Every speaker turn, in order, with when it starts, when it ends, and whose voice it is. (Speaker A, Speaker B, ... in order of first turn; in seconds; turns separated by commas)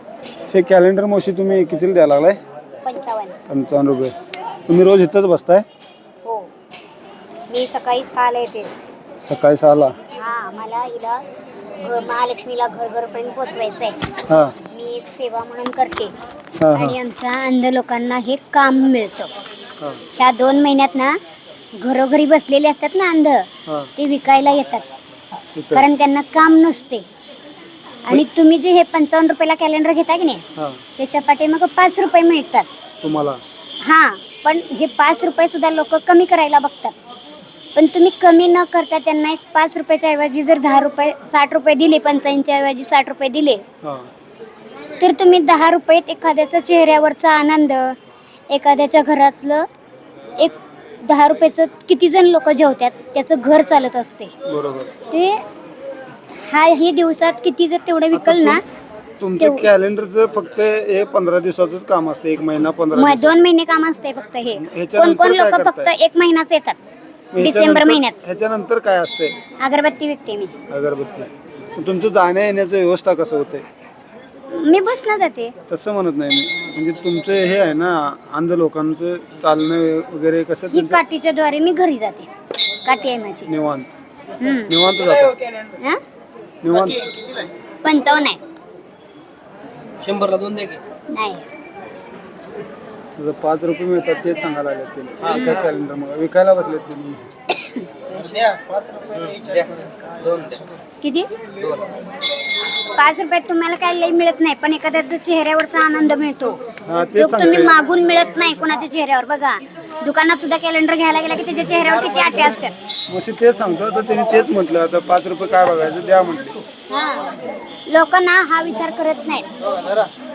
Speaker A: 0.5-2.4, Speaker B: 2.8-3.4, Speaker A: 3.5-4.1, Speaker A: 4.7-5.7, Speaker B: 7.5-8.7, Speaker A: 9.2-9.9, Speaker B: 10.1-11.2, Speaker B: 11.8-14.0, Speaker A: 14.3-14.6, Speaker B: 14.7-16.1, Speaker A: 16.6-17.0, Speaker B: 16.7-19.3, Speaker B: 20.2-21.2, Speaker B: 21.7-24.9, Speaker A: 25.6-25.9, Speaker B: 25.7-27.1, Speaker B: 28.1-30.4, Speaker B: 31.0-32.7, Speaker A: 33.0-33.4, Speaker B: 33.8-37.0, Speaker B: 37.8-43.6, Speaker A: 43.8-44.1, Speaker B: 45.0-48.0, Speaker B: 48.5-49.7, Speaker B: 50.4-54.3, Speaker A: 54.5-54.9, Speaker B: 55.1-55.4, Speaker B: 56.3-58.6, Speaker A: 58.1-58.6, Speaker A: 59.2-63.4, Speaker B: 59.4-59.7, Speaker B: 63.0-66.8, Speaker A: 64.6-65.9, Speaker A: 67.3-69.4, Speaker B: 67.4-68.2, Speaker B: 69.6-70.5, Speaker A: 70.7-73.7, Speaker B: 74.5-75.5, Speaker A: 75.7-81.0, Speaker B: 80.7-82.3, Speaker B: 82.8-83.5, Speaker A: 83.5-83.9, Speaker B: 84.4-84.7, Speaker A: 84.7-85.4, Speaker A: 86.6-87.1, Speaker C: 87.0-87.5, Speaker B: 87.8-88.4, Speaker C: 90.0-90.8, Speaker B: 91.1-91.5, Speaker A: 93.2-97.3, Speaker B: 95.3-95.6, Speaker B: 97.5-97.8, Speaker C: 98.1-100.6, Speaker B: 101.0-101.3, Speaker B: 103.0-106.6, Speaker A: 106.9-107.8, Speaker B: 107.2-112.7, Speaker A: 113.1-116.6, Speaker B: 116.9-117.3, Speaker B: 117.9-119.5, Speaker C: 119.7-120.1